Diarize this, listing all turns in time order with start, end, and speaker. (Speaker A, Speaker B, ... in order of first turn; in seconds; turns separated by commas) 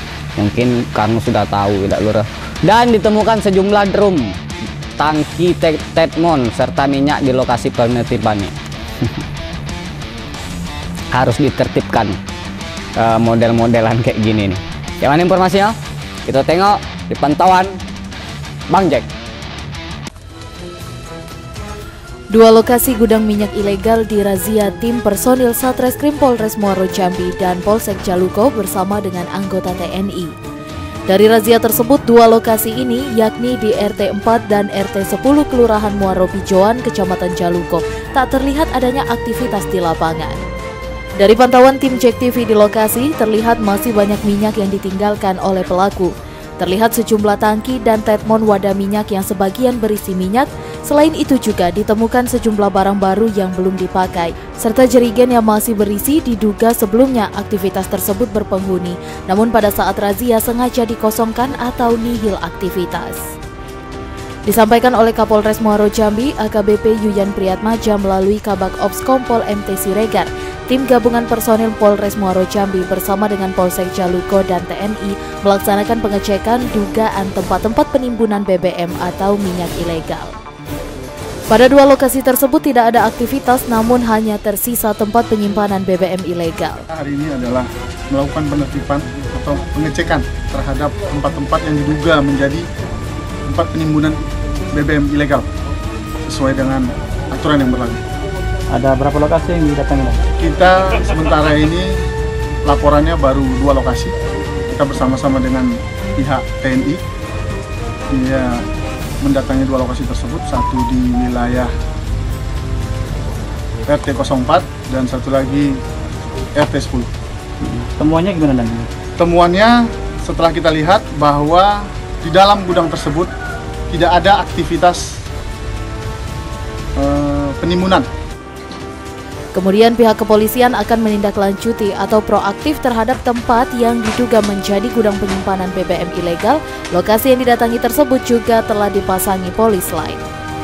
Speaker A: 0.4-4.4, Speaker A: 5.0-9.1, Speaker A: 11.1-12.2, Speaker A: 12.9-17.8, Speaker A: 18.7-19.1, Speaker B: 22.3-30.3, Speaker B: 31.1-40.4, Speaker B: 41.2-63.3, Speaker B: 64.5-80.4, Speaker B: 81.5-86.8, Speaker C: 86.9-92.7, Speaker C: 93.5-95.5, Speaker C: 96.3-98.0, Speaker D: 98.7-100.2, Speaker C: 100.4-102.0, Speaker C: 102.6-104.1, Speaker C: 104.7-107.0, Speaker C: 108.1-108.6, Speaker C: 109.2-111.7, Speaker C: 113.9-115.8, Speaker C: 116.5-117.1, Speaker D: 117.6-118.9, Speaker C: 119.2-123.3, Speaker C: 123.9-125.2, Speaker C: 127.0-128.1, Speaker B: 129.5-140.2